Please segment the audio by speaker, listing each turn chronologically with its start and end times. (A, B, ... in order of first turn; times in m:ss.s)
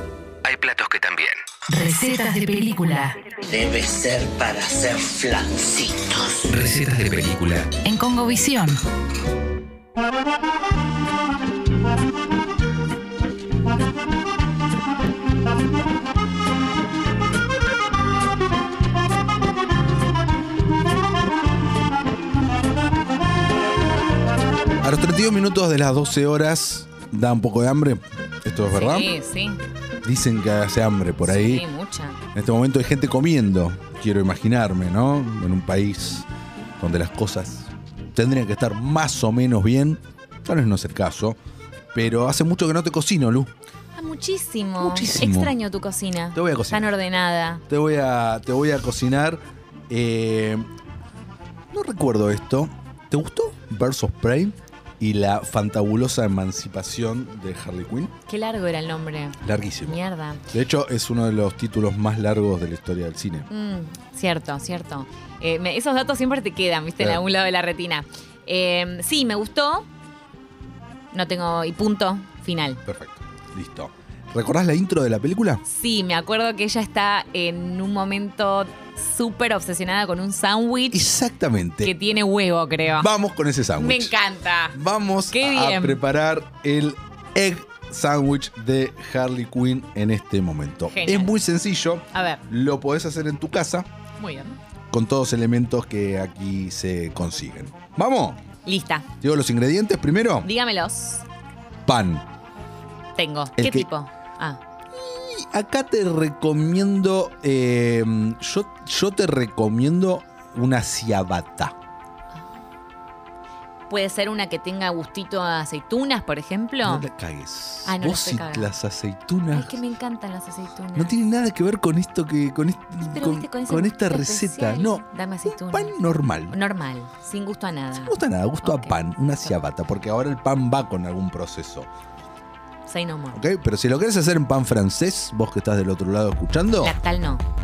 0:00.4-0:01.4 A
0:01.7-0:03.2 B
0:03.4-0:06.6 C
0:06.5-0:07.7 A
0:07.8-0:08.8 B
0:24.8-0:29.1 D
0:28.6-0:29.6 E
0:30.0-0:31.6 D
0:31.2-0:32.2 E
0:32.3-0:36.3 D
0:36.8-0:41.4 D
0:41.9-0:43.5 D
0:44.0-0:47.6 E
0:44.8-0:45.6 D
0:46.3-0:47.0 D
0:47.7-0:50.7 D
0:51.7-0:58.1 D
0:58.2-1:00.4 E
0:59.4-1:03.5 D
1:03.5-1:09.9 E
1:11.1-1:12.8 E
1:12.8-1:15.6 D
1:15.6-1:21.1 E
1:20.9-1:21.9 D
1:21.8-1:23.1 E
1:22.9-1:24.1 D
1:23.8-1:24.8 E
1:24.7-1:33.9 D
1:25.3-1:26.0 E
1:30.9-1:31.3 E
1:32.1-1:32.4 E
1:34.2-1:34.6 E
1:34.9-1:38.4 D
1:38.6-1:39.1 E
1:39.2-1:40.5 D
1:40.4-1:41.2 E
1:41.8-1:42.2 D
1:43.2-1:44.6 E
1:43.6-1:43.9 D
1:44.9-1:51.7 D
1:53.9-1:57.1 E
1:56.8-1:59.8 D
1:57.8-1:58.7 E
1:59.5-2:01.1 E
2:00.9-2:06.6 D
2:03.0-2:06.0 E
2:06.5-2:09.5 E
2:07.9-2:11.9 D
2:12.8-2:13.4 E
2:13.3-2:17.0 D
2:16.8-2:17.4 E